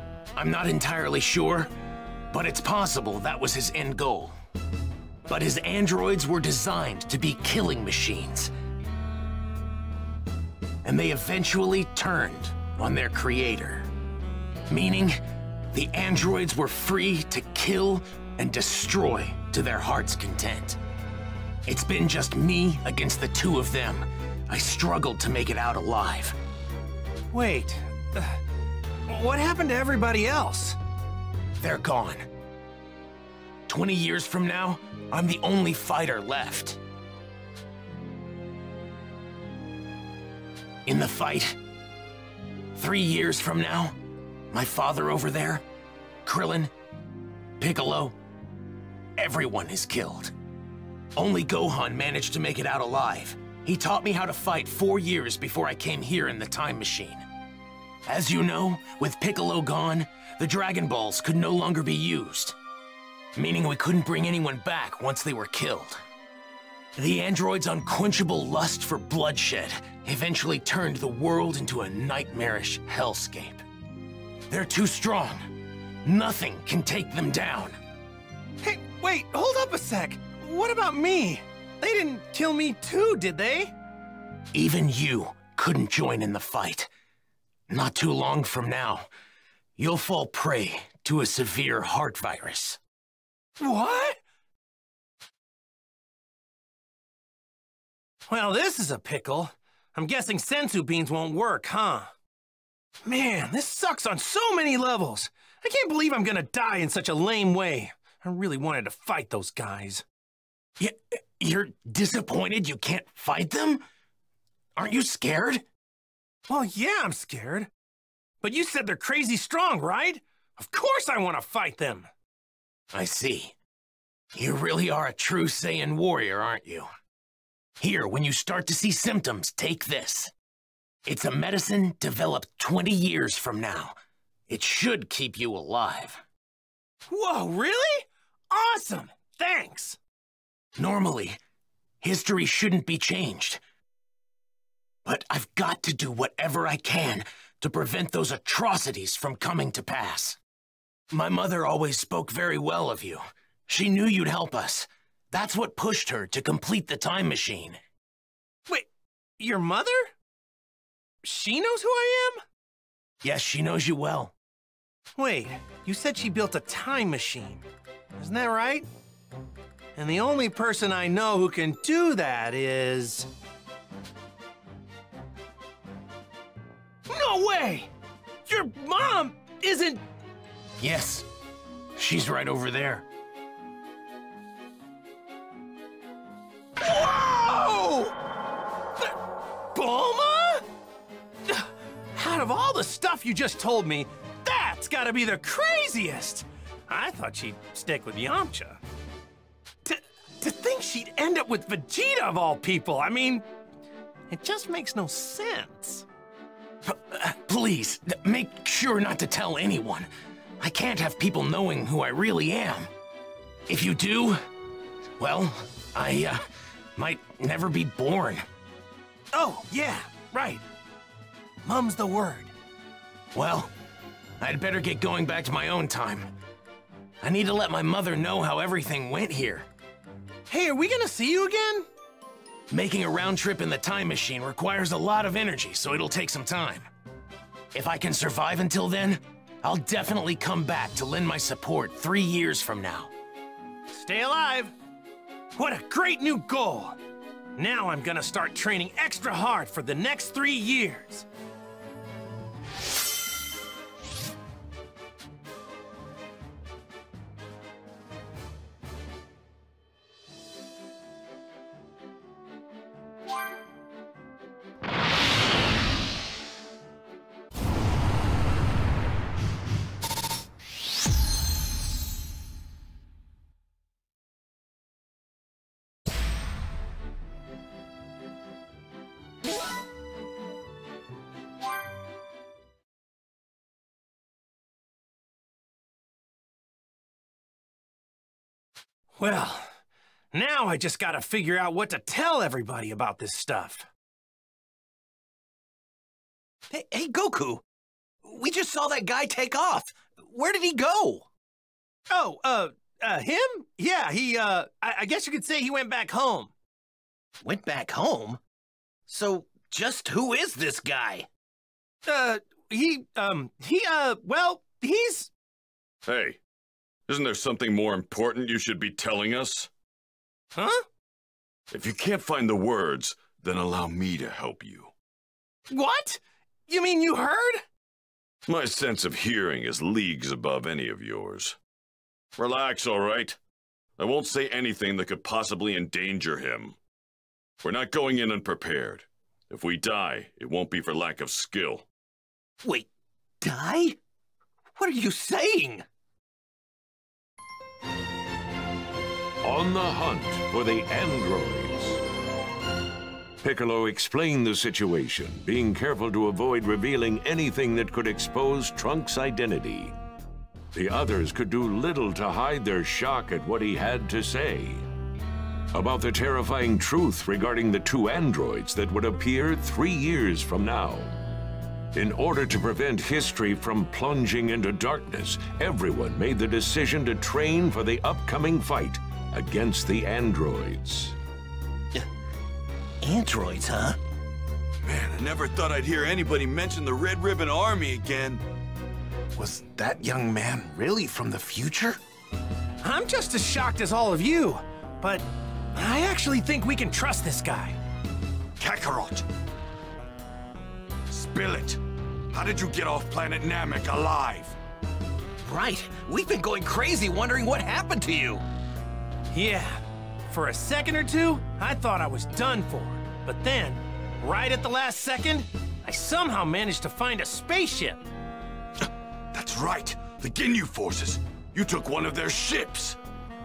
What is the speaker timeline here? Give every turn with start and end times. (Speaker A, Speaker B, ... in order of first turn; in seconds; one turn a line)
Speaker A: 0.3-1.7
Speaker A: 2.3-4.3
Speaker A: 5.3-8.5
Speaker A: 10.8-13.9
Speaker A: 14.7-15.2
Speaker A: 15.7-20.8
Speaker A: 21.7-26.4
Speaker B: 27.3-28.4
Speaker B: 29.1-30.8
Speaker A: 31.6-32.3
Speaker A: 33.7-36.8
Speaker A: 40.9-41.5
Speaker A: 42.7-43.9
Speaker A: 44.5-45.6
Speaker A: 46.2-46.7
Speaker A: 47.6-48.1
Speaker A: 49.2-50.3
Speaker A: 51.1-57.2
Speaker A: 58.0-62.5
Speaker A: 63.3-66.0
Speaker A: 67.0-73.6
Speaker A: 74.5-75.5
Speaker A: 76.0-77.8
Speaker B: 78.6-83.7
Speaker A: 84.5-86.9
Speaker A: 87.7-89.1
Speaker A: 89.8-92.8
Speaker B: 93.6-94.2
Speaker B: 98.3-102.1
Speaker B: 103.0-110.0
Speaker A: 110.8-113.8
Speaker A: 114.8-115.6
Speaker B: 116.5-117.7
Speaker B: 118.4-122.1
Speaker A: 122.9-123.5
Speaker A: 124.3-126.9
Speaker A: 127.8-130.3
Speaker A: 131.1-133.9
Speaker A: 134.5-136.2
Speaker B: 137.1-140.0
Speaker A: 140.8-141.4
Speaker A: 142.0-143.6
Speaker A: 145.0-150.4
Speaker A: 151.1-157.8
Speaker B: 159.4-160.1
Speaker B: 161.2-162.4
Speaker A: 163.2-164.3
Speaker B: 165.2-167.6
Speaker B: 168.2-168.9
Speaker B: 169.9-173.3
Speaker B: 177.1-177.9
Speaker B: 178.4-180.0
Speaker A: 180.8-181.3
Speaker A: 181.9-183.0
Speaker B: 186.8-188.1
Speaker B: 189.7-190.6
Speaker B: 191.5-198.8
Speaker B: 199.8-203.4
Speaker B: 204.3-206.1
Speaker A: 206.8-212.9
Speaker A: 213.7-214.4
Speaker A: 215.2-216.4
Speaker A: 216.9-218.4
Speaker B: 219.3-220.6
Speaker B: 221.6-222.5
Speaker A: 223.3-223.7
Speaker A: 224.4-226.3
Speaker A: 227.2-229.7
Speaker B: 230.5-231.9
Speaker A: 232.7-236.9
Speaker A: 237.7-243.1
Speaker B: 243.9-244.7
Speaker B: 245.5-247.0
Speaker B: 247.6-251.3
Speaker B: 289.2-289.7
Speaker B: 290.3-293.9
Speaker C: 296.7-297.6
Speaker C: 298.2-301.3
Speaker B: 302.1-306.5
Speaker C: 307.4-308.4
Speaker C: 309.1-311.3
Speaker B: 312.1-315.3
Speaker D: 316.1-316.4
Speaker D: 317.1-319.7
Speaker B: 320.5-320.8
Speaker D: 321.7-324.9
Speaker B: 325.7-327.6
Speaker D: 328.4-331.6
Speaker D: 332.4-333.4
Speaker D: 334.0-336.8
Speaker D: 337.6-341.9
Speaker C: 342.6-342.9
Speaker C: 343.4-344.0
Speaker C: 344.8-345.8
Speaker E: 349.4-352.0
Speaker E: 353.4-359.9
Speaker E: 360.7-364.9
Speaker E: 365.7-371.1
Speaker E: 371.9-381.1
Speaker C: 383.0-384.0
Speaker F: 384.8-388.4
Speaker G: 389.4-392.0
Speaker B: 392.8-397.8
Speaker F: 398.6-399.2
Speaker F: 401.1-401.8
Speaker F: 402.3-404.6
Speaker C: 405.4-408.4
Speaker B: 409.3-418.0
Speaker F: 419.3-423.0